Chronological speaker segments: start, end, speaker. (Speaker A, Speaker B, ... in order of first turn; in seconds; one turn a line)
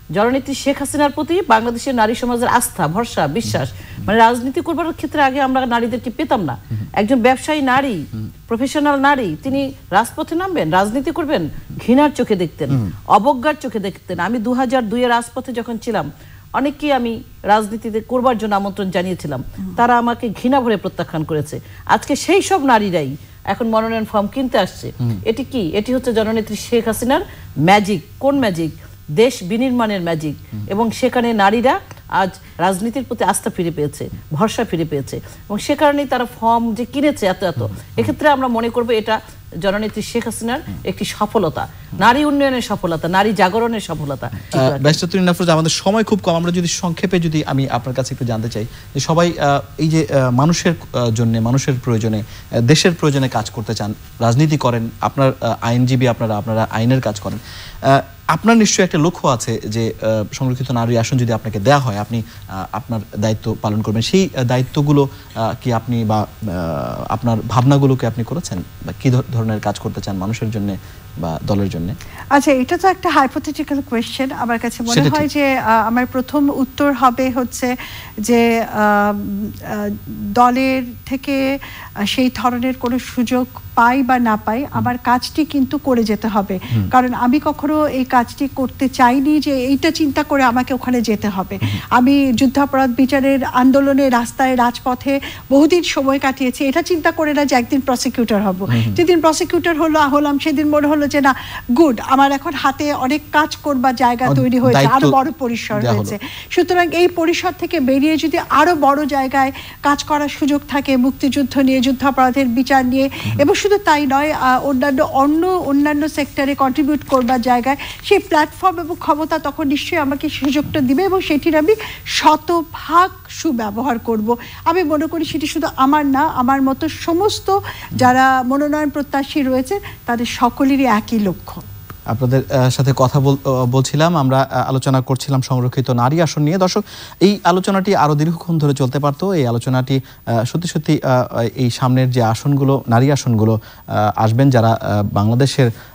Speaker A: 0.2-45.0
Speaker B: 44.5-72.0
Speaker C: 72.4-77.7
Speaker B: 74.9-75.3
Speaker C: 78.3-81.4
Speaker C: 82.1-131.6
Speaker B: 98.7-99.0
Speaker B: 104.3-105.2
Speaker B: 105.7-106.2
Speaker B: 132.1-143.6
Speaker B: 144.2-145.7